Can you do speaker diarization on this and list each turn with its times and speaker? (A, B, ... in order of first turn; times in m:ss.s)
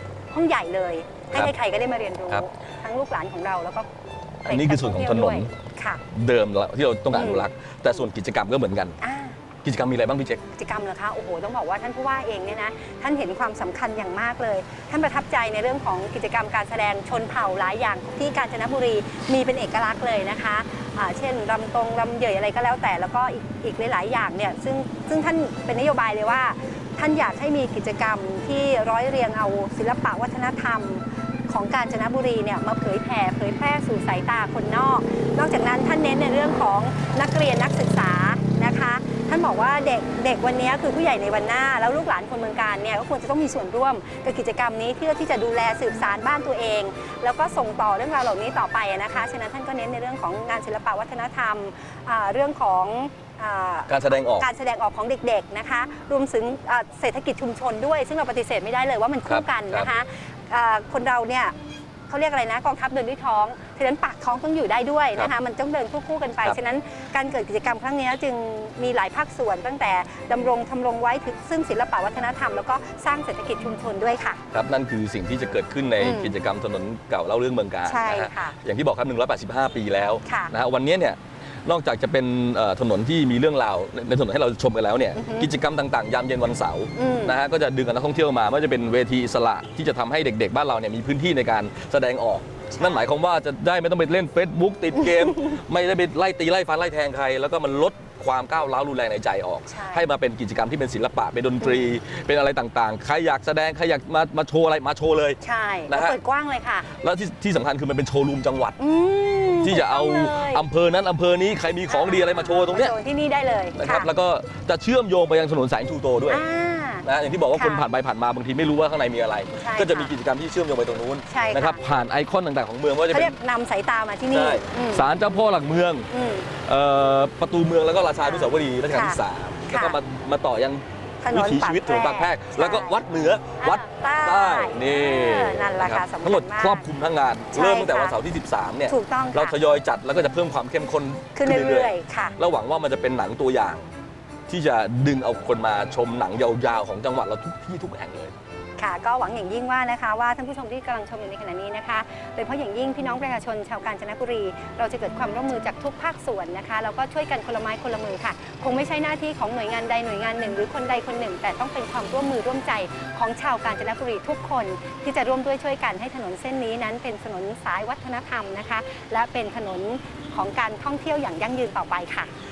0:00.3-0:03.9 A
0:04.4-0:05.5 B
0:04.4-0:06.0 A
0:06.1-0:09.0 B
0:07.1-0:07.5 A
0:09.0-0:09.4 A
0:09.6-0:10.4 B
0:10.5-1:01.5 A
0:53.9-0:54.5 B
0:59.3-0:59.9 B
1:02.1-1:14.4 A
1:14.5-1:45.4 B
1:16.0-1:16.3 A
1:17.8-1:18.6 A
1:20.2-1:20.5 A
1:25.2-1:25.5 A
1:27.0-1:27.4 A
1:32.7-1:33.1 A
1:35.0-1:35.6 A
1:39.7-1:40.1 A
1:45.4-1:46.9 A
1:45.9-1:46.2 B
1:47.0-1:48.8 B
1:48.8-1:50.6 A
1:49.6-1:52.9 B
1:51.9-1:54.1 A
1:53.8-1:56.4 B
1:56.3-1:57.8 A
1:57.0-2:03.3 B
1:59.5-2:00.1 A
2:01.3-2:01.8 A
2:03.1-2:05.1 A
2:04.3-2:23.9 B
2:06.1-2:06.5 A
2:08.2-2:10.0 A
2:11.2-2:13.0 A
2:13.6-2:16.9 A
2:17.5-2:18.2 A
2:18.9-2:19.6 A
2:21.3-2:22.4 A
2:24.5-2:28.3 B
2:28.8-2:52.3 A